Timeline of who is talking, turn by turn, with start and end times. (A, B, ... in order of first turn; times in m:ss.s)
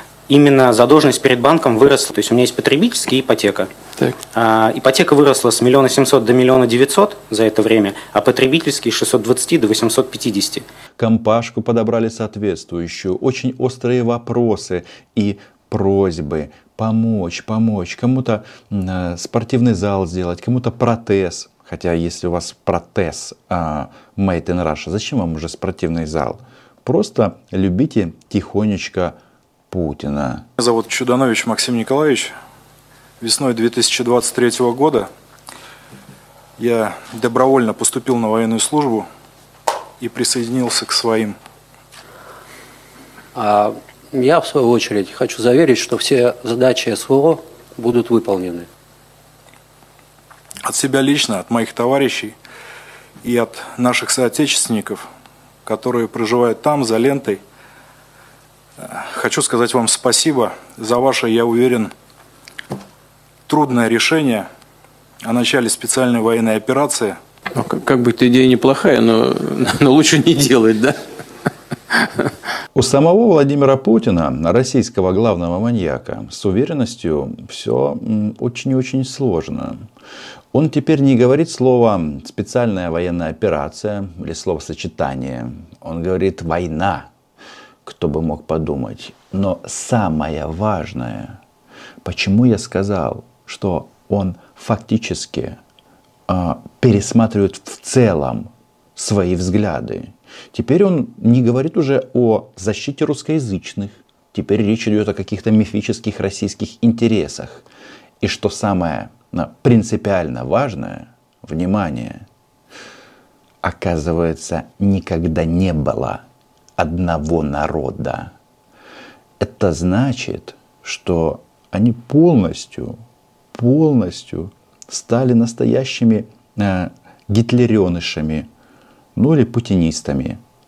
0:00.3-0:03.7 A
0:04.3-0:10.6 A
0:11.0-0:29.2 B
0:29.7-0:30.5 B
0:30.6-0:32.3 C
0:33.2-0:35.1 C
0:36.6-0:39.1 C
0:40.0-0:41.4 C
0:43.4-0:48.7 D
0:50.6-0:52.4 C
0:53.2-0:55.1 C
0:55.7-0:57.4 C
0:58.8-1:01.9 C
1:03.5-1:04.5 C
1:05.2-1:07.2 C
1:07.5-1:11.2 E
1:11.9-1:12.2 E
1:12.8-1:19.9 B
1:20.5-1:27.1 B
1:27.8-1:31.4 B
1:32.0-1:35.6 B
1:36.3-1:47.6 B
1:48.2-1:52.3 B
1:53.6-1:56.2 B
1:56.8-1:58.3 B
1:59.4-2:03.0 B
2:03.5-2:08.5 B
2:09.2-2:10.4 B